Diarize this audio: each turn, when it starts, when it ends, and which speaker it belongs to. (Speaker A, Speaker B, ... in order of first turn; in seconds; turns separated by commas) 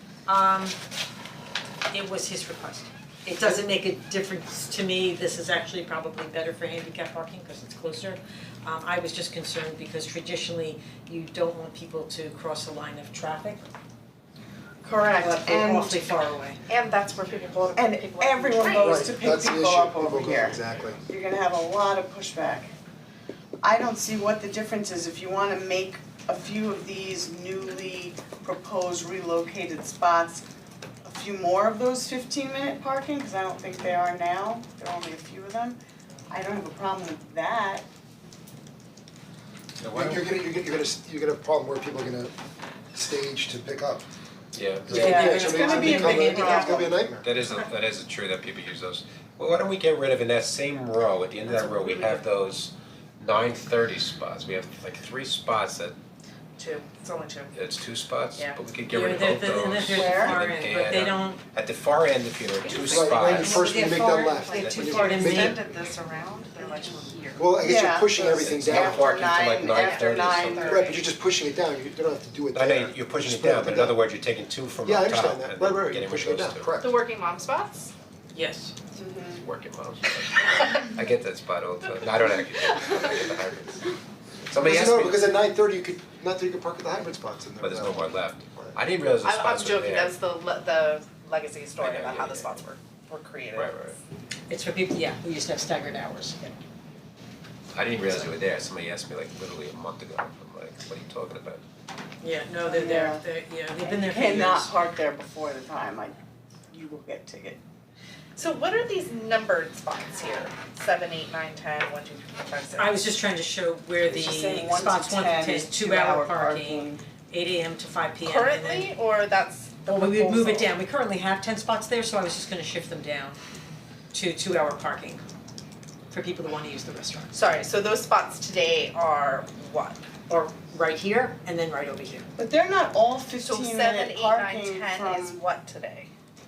Speaker A: 0.3-0.8, Speaker A: 1.9-13.6, Speaker B: 14.8-16.0, Speaker A: 15.2-16.6, Speaker C: 16.7-19.1, Speaker B: 17.8-22.7, Speaker D: 18.7-21.0, Speaker B: 23.6-30.5, Speaker B: 31.0-35.8, Speaker B: 36.3-37.9, Speaker E: 39.8-40.4, Speaker D: 39.9-42.3, Speaker D: 42.9-44.1, Speaker E: 44.5-45.0, Speaker D: 44.9-47.3, Speaker A: 44.9-46.9, Speaker B: 44.9-47.1, Speaker E: 47.2-56.0, Speaker A: 51.5-51.9, Speaker C: 56.6-57.6, Speaker E: 57.5-63.7, Speaker C: 58.4-58.6, Speaker A: 58.9-61.4, Speaker B: 59.9-60.4, Speaker C: 62.7-63.8, Speaker D: 62.9-65.6, Speaker A: 63.1-65.6, Speaker E: 64.6-65.0, Speaker C: 64.7-67.5, Speaker D: 67.4-69.1, Speaker B: 67.6-71.0, Speaker E: 68.4-70.9, Speaker C: 69.8-71.0, Speaker D: 70.7-74.0, Speaker E: 72.5-76.8, Speaker D: 74.8-77.0, Speaker C: 76.8-77.9, Speaker A: 78.3-78.7, Speaker B: 79.0-79.4, Speaker E: 79.4-83.8, Speaker C: 82.6-82.9, Speaker E: 84.5-85.2, Speaker D: 84.6-88.7, Speaker E: 87.6-90.2, Speaker C: 89.2-93.9, Speaker E: 91.8-92.6, Speaker E: 93.5-94.0, Speaker A: 94.5-96.5, Speaker E: 97.8-101.6, Speaker A: 102.2-104.7, Speaker B: 102.6-103.2, Speaker B: 103.8-106.2, Speaker B: 106.7-107.6, Speaker C: 108.3-113.1, Speaker A: 112.8-118.9, Speaker B: 114.1-117.0, Speaker C: 118.2-120.8, Speaker A: 119.9-123.4, Speaker A: 124.1-125.2, Speaker A: 126.1-127.3, Speaker C: 127.3-130.0, Speaker A: 130.3-132.3, Speaker B: 132.4-135.4, Speaker C: 133.4-136.1